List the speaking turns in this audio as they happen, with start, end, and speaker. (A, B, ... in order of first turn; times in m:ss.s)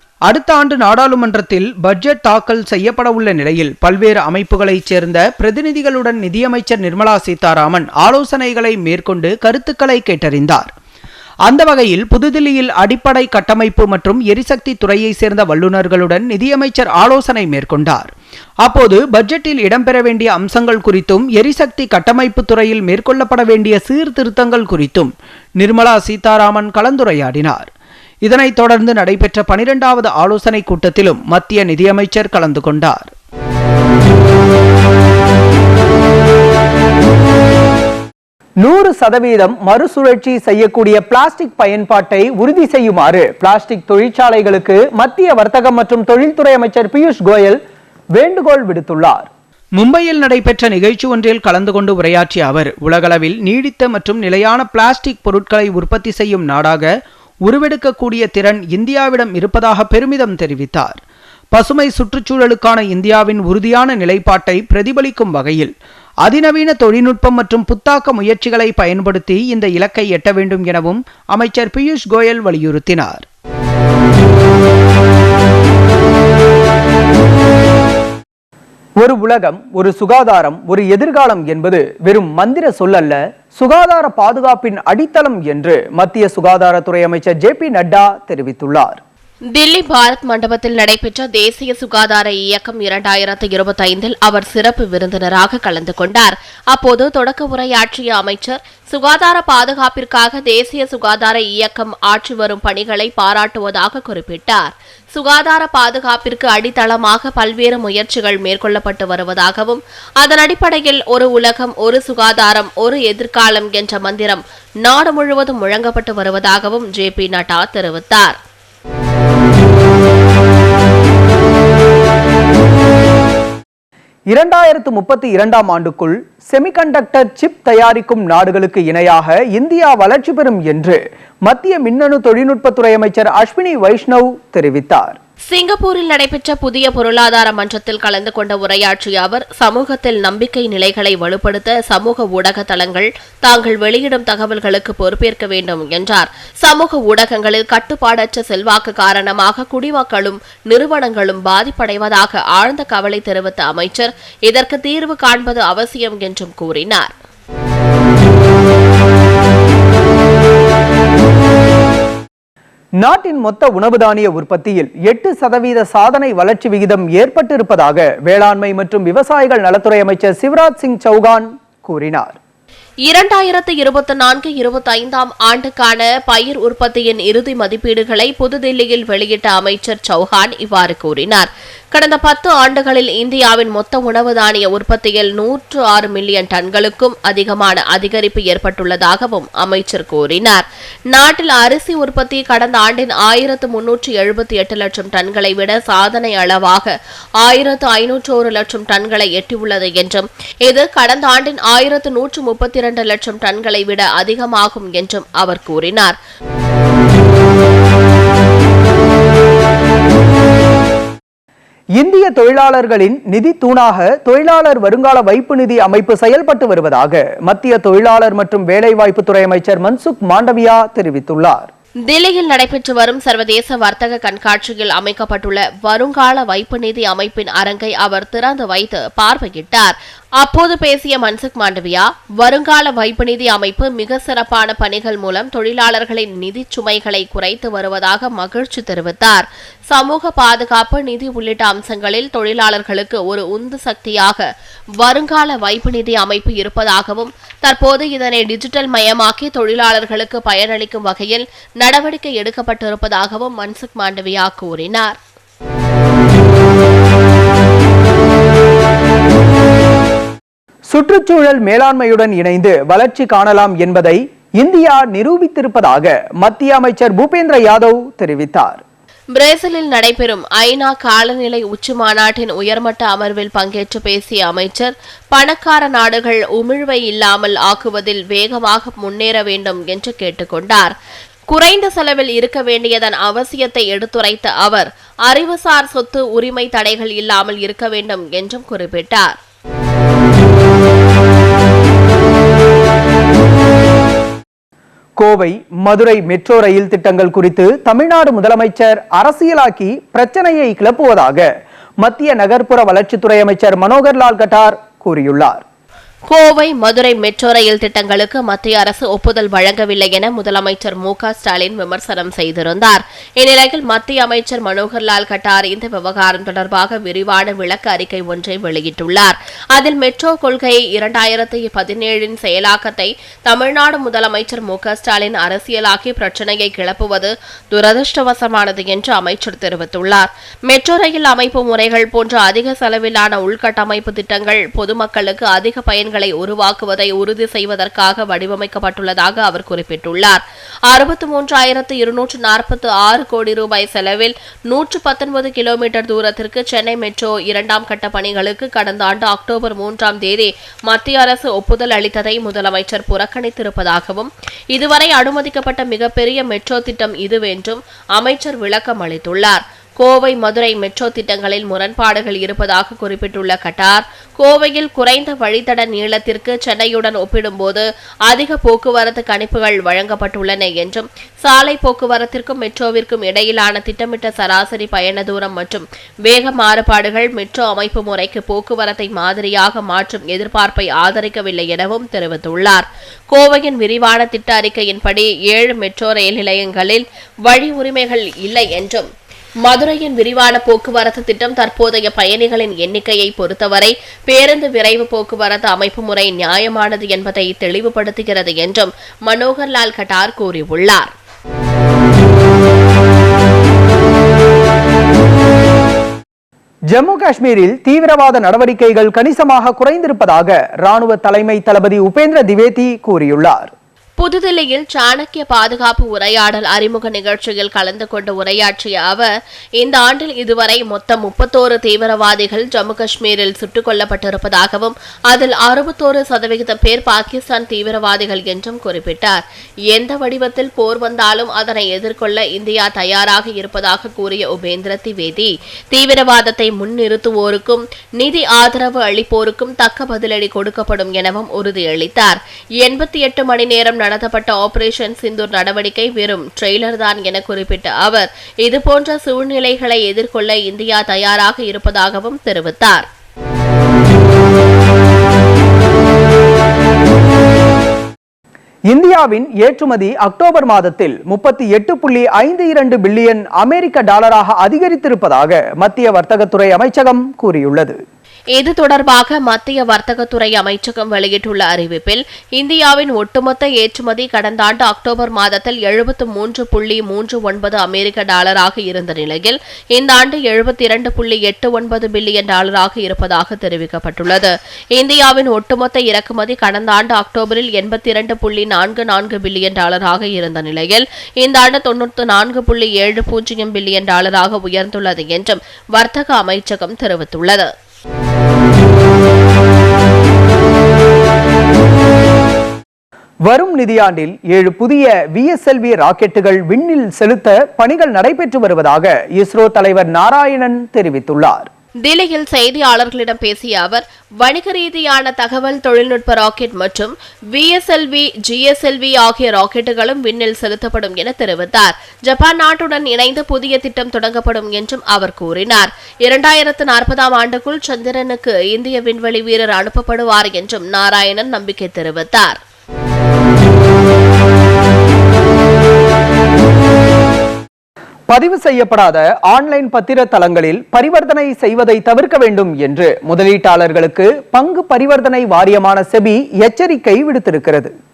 0:00.3-0:10.7 A
0:11.5-0:18.1 A
0:18.6-0:27.7 A
0:28.2-0:33.1 A
0:38.6-0:47.6 B
0:48.1-0:49.3 B
0:49.8-0:56.9 A
0:57.4-1:01.0 A
1:01.5-1:05.7 A
1:06.2-1:13.2 A
1:19.0-1:29.0 B
1:29.5-1:58.4 C
2:04.3-2:15.2 B
2:15.5-2:37.1 C
2:43.0-2:52.4 B
2:53.1-3:26.2 C
3:32.0-3:41.7 B
3:42.1-4:04.5 C
4:05.0-4:15.2 C
4:20.9-4:28.8 B
4:29.4-4:40.9 C
4:41.5-4:49.4 C
4:55.2-5:01.5 B
5:02.0-5:05.6 B
5:06.3-6:29.1 C
6:29.6-6:41.1 C
6:46.9-6:53.7 B
6:54.2-7:33.1 C
7:38.9-7:48.0 B
7:48.6-8:17.7 C
8:23.5-8:31.7 B
8:32.0-8:52.6 C
8:58.3-9:07.9 B